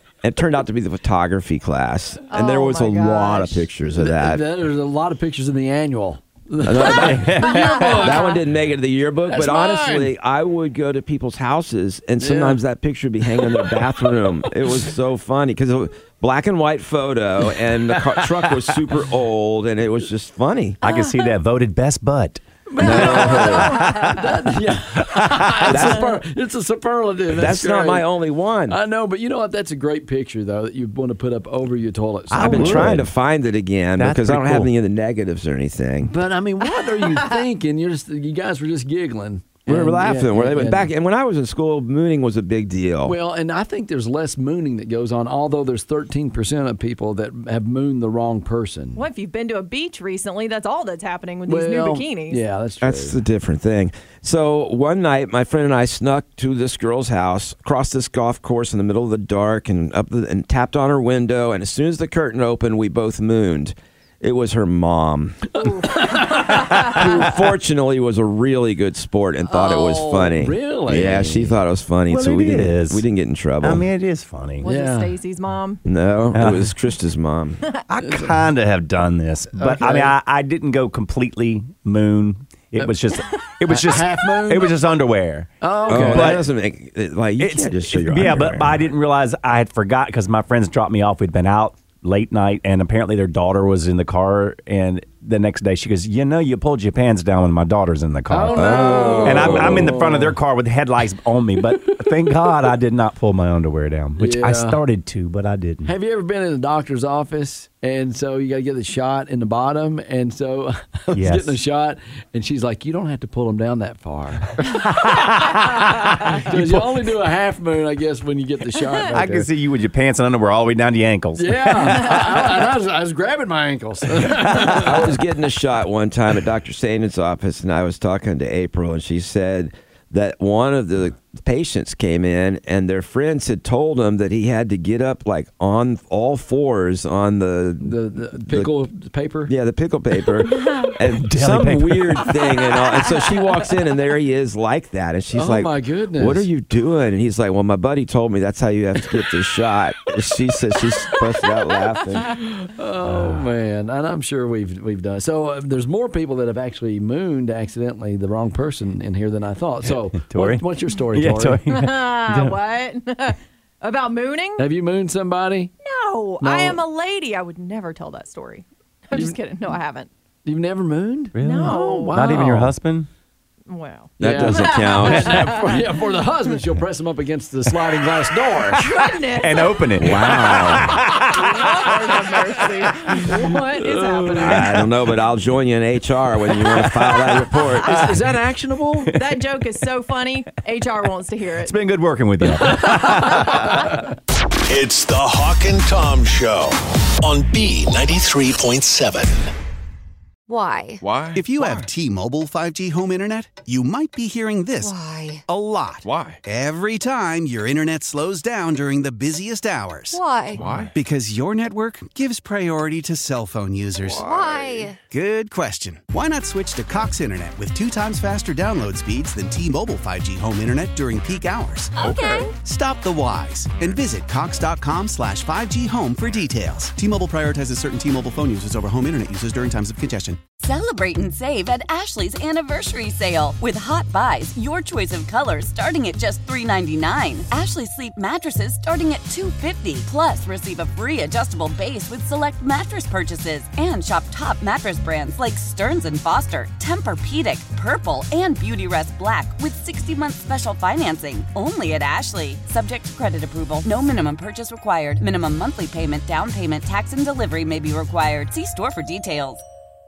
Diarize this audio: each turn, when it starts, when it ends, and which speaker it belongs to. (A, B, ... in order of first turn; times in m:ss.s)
0:00.2-0:04.4 A
0:02.3-0:03.7 B
0:04.0-0:08.4 C
0:06.6-0:20.8 A
0:07.0-0:07.8 D
0:07.4-0:08.4 B
0:09.3-0:10.1 C
0:12.2-0:12.6 C
0:13.6-0:13.9 C
0:18.2-0:18.5 C
0:20.8-0:24.2 D
0:20.8-0:21.2 B
0:22.7-0:28.1 C
0:22.8-0:23.8 A
0:22.8-0:24.2 B
0:25.0-0:25.9 D
0:25.7-0:26.2 A
0:27.3-0:28.8 A
0:28.7-0:33.0 C
0:32.3-0:33.1 D
0:32.4-0:36.1 A
0:34.0-0:34.7 D
0:36.0-0:40.9 C
0:39.7-0:43.2 A
0:43.0-0:49.0 C
0:49.0-0:52.4 B
0:51.5-0:53.2 C
0:52.8-1:05.5 A
1:05.5-1:07.4 C
1:05.6-1:07.0 B
1:06.5-1:13.8 A
1:09.6-1:11.5 C
1:12.1-1:13.0 D
1:13.6-1:14.7 D
1:14.6-1:15.8 B
1:14.7-1:15.2 C
1:15.9-1:17.6 A
1:16.4-1:16.7 D
1:17.9-1:26.5 D
1:18.0-1:18.3 C
1:19.6-1:20.2 C
1:23.7-1:24.7 C
1:25.6-1:26.4 C
1:25.9-1:28.8 A
1:27.4-1:45.9 D
1:38.3-1:40.4 C
1:38.6-1:40.0 A
1:44.2-1:44.8 C
1:45.8-1:55.7 C
1:51.1-1:51.6 D
1:54.6-1:57.0 D
1:56.2-1:59.5 C
1:59.1-2:02.5 D
2:01.4-2:05.1 C
2:04.5-2:04.8 D
2:04.8-2:18.7 A
2:17.8-2:19.5 C
2:19.5-2:32.4 A
2:21.0-2:22.5 D
2:25.3-2:26.5 C
2:32.2-2:41.6 C
2:33.0-2:33.5 D
2:39.8-2:42.6 D
2:41.7-2:44.7 B
2:44.6-2:45.7 C
2:45.8-2:50.1 B
2:46.4-2:46.8 C
2:50.4-2:52.7 C
2:51.4-2:53.1 D
2:51.4-2:52.1 B
2:53.7-2:56.0 B
2:54.2-2:55.6 A
2:54.2-2:58.9 C
2:58.7-3:00.2 B
2:59.3-3:02.8 D
3:00.0-3:00.9 A
3:00.9-3:04.6 B
3:03.2-3:04.7 C
3:04.4-3:08.2 A
3:07.8-3:09.1 C
3:09.1-3:11.8 B
3:11.6-3:14.0 D
3:12.8-3:13.5 C
3:13.2-3:13.6 B
3:14.7-3:19.5 E
3:20.5-3:21.0 F
3:21.0-3:21.4 A
3:21.4-3:25.0 G
3:24.8-3:25.4 F
3:25.5-3:50.4 G
3:26.0-3:26.4 A
3:30.1-3:30.6 F
3:30.6-3:30.9 A
3:34.1-3:34.8 A
3:34.2-3:35.0 F
3:42.0-3:42.5 B
3:50.6-4:19.6 H